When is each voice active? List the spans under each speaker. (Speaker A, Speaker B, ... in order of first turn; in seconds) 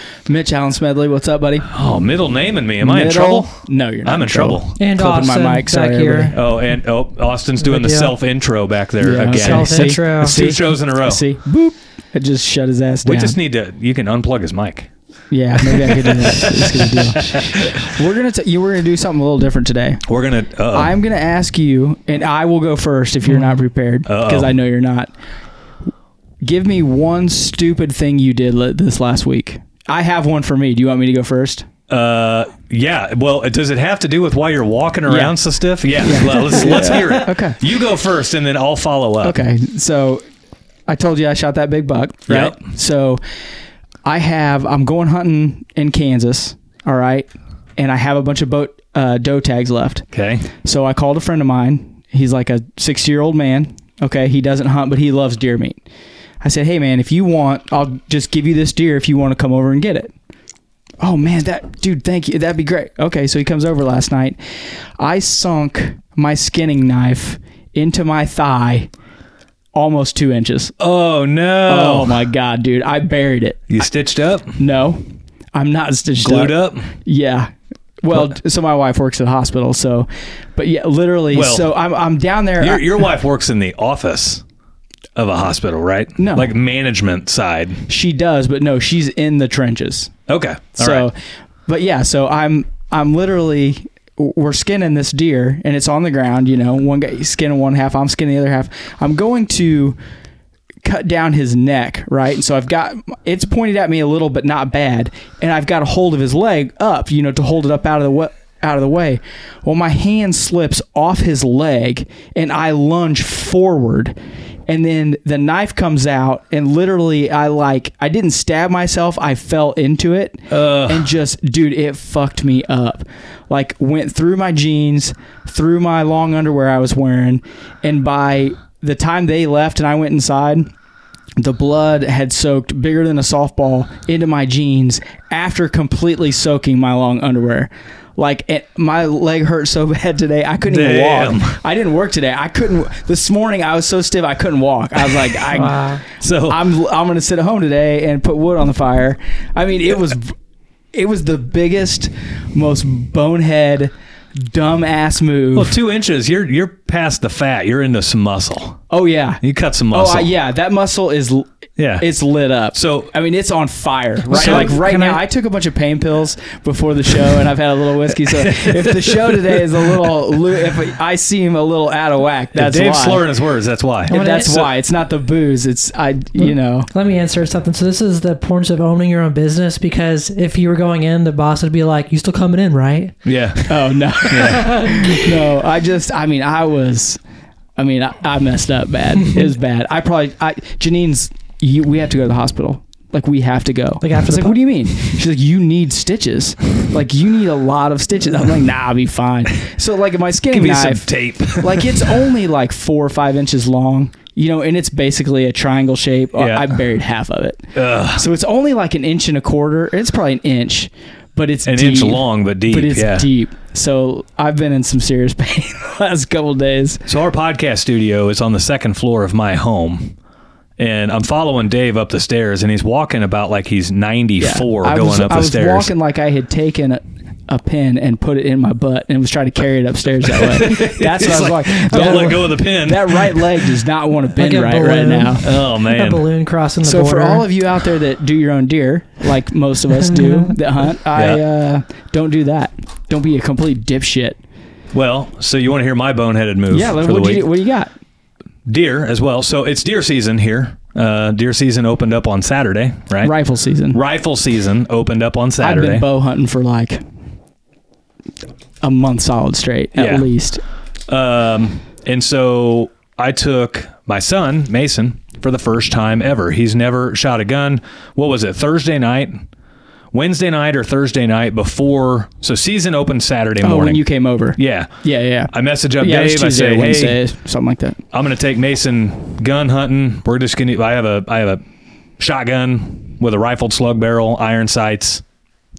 Speaker A: 0.3-1.7, 2.8-6.3, 9.0-13.3, 15.3-20.0, 20.7-25.1, 26.4-31.7, 35.1-35.4, 36.0-37.6, 39.2-40.2, 40.9-43.2, 44.0-50.1, 50.6-55.8, 56.4-60.1, 61.0-64.4, 65.0-68.9, 69.7-70.7, 71.7-73.7, 74.6-75.0, 75.5-83.0, 86.2-86.5, 87.9-90.1, 90.8-91.2, 91.7-100.0, 100.8-114.1, 114.7-130.7, 131.4-150.3, 150.9-155.8, 158.9-173.2, 174.1-176.9, 183.7-187.2, 187.8-201.1, 201.6-217.0, 224.4-235.5, 236.8-244.4, 246.7-247.9, 253.2-254.0, 255.6-257.0, 258.8-260.6, 273.6-278.0
Speaker B: 1.7-4.8, 6.3-11.2, 13.0-14.9, 15.6-17.9, 20.1-20.9, 24.1-24.5, 31.9-39.4, 42.3-42.6, 50.1-50.4, 70.8-72.2, 73.7-74.6, 76.2-76.9, 81.3-81.7, 82.6-84.4, 85.2-87.8, 90.3-91.0, 120.5-121.1, 140.7-141.6, 146.2-146.6, 155.5-158.8, 159.4-160.3, 161.8-162.1, 162.7-163.1, 164.3-165.1, 168.2-169.9, 172.5-174.1, 183.2-183.7, 184.3-184.8, 200.5-202.1, 206.3-206.8, 207.7-208.3, 211.7-213.3, 217.1-220.1, 220.8-225.9, 230.2-233.6, 235.4-236.2, 241.1-241.4, 244.9-247.5, 248.7-253.3, 253.9-256.1, 259.9-260.3, 261.1-269.4, 270.1-274.0, 274.6-274.9, 275.5-277.2, 278.1-281.6, 282.2-285.2
Speaker C: 4.8-6.4, 7.6-8.1, 9.3-10.4, 145.5-146.0, 164.4-165.2, 174.1-174.7, 176.4-183.1, 184.3-185.1, 194.0-194.6, 231.9-232.3, 234.3-237.4, 240.2-240.5